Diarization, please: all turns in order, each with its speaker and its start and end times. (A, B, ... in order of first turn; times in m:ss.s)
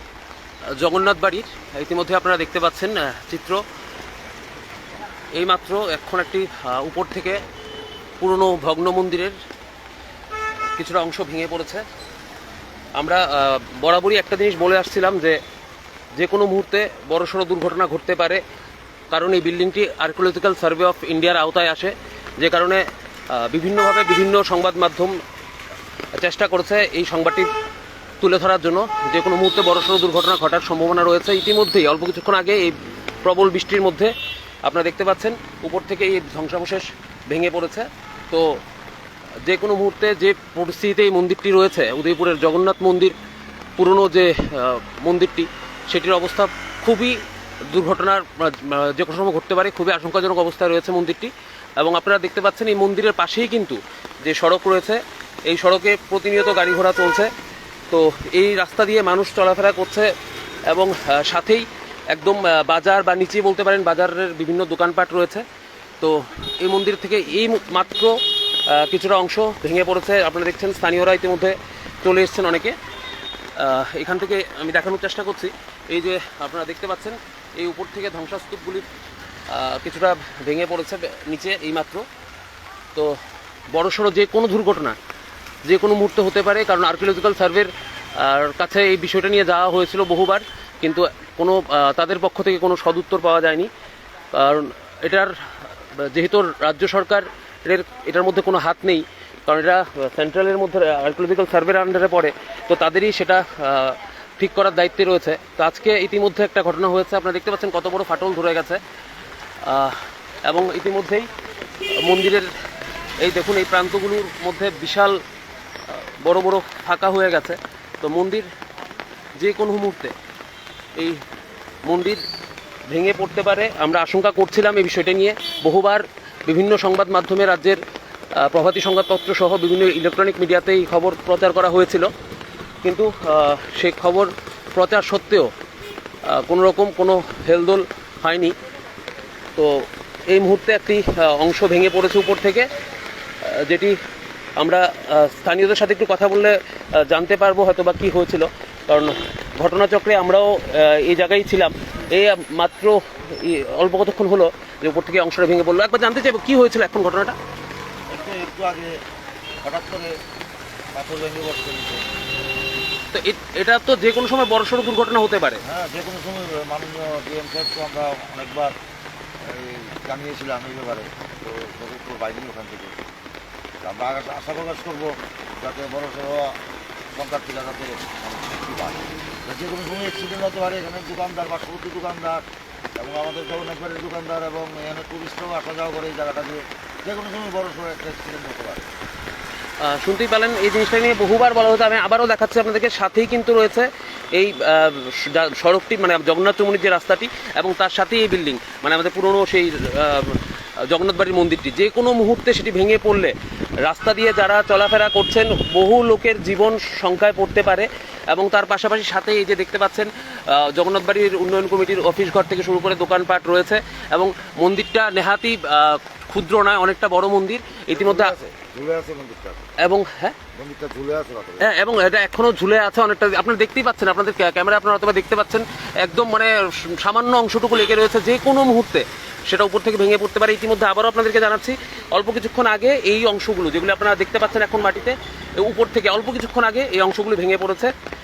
0:00.8-0:03.6 A
0:05.3-0:07.4 A
0:08.2-0:09.4 A
0:10.8-0:11.8 A
0:13.0-0:15.4 A
0:16.2-0:18.4 A
0:19.1-0:25.2 A
0:26.2-0:27.5 A
0:28.2-0:38.6 A
0:39.4-0:43.2 A
0:43.8-0:57.3 A
0:57.9-1:00.1 A
1:00.7-1:05.4 A
1:06.0-1:12.8 A
1:13.6-1:18.9 A
1:19.5-1:22.1 A
1:22.9-1:23.2 A
1:23.7-1:25.0 A
1:25.6-1:33.7 A
1:34.3-1:35.4 A
1:36.0-1:48.8 A
1:49.6-1:51.3 A
1:51.9-1:52.5 A
1:53.2-1:55.2 A
1:55.9-1:58.5 A
1:59.4-2:00.1 A
2:01.0-2:01.2 A
2:01.8-2:02.2 A
2:02.9-2:07.8 A
2:08.3-2:12.1 A
2:12.8-2:15.5 A
2:16.2-2:18.6 A
2:19.6-2:22.7 A
2:23.4-2:24.0 A
2:24.6-2:37.4 A
2:38.1-2:39.0 B
2:39.6-2:40.2 B
2:40.9-2:42.0 B
2:43.1-2:45.6 A
2:45.6-2:48.7 B
2:49.4-2:53.0 B
2:53.8-2:56.6 B
2:57.2-3:02.4 B
3:03.0-3:08.9 B
3:09.8-3:38.3 A
3:37.9-3:39.7 B
3:39.8-3:40.4 A
3:40.6-3:41.7 B
3:41.6-3:57.9 A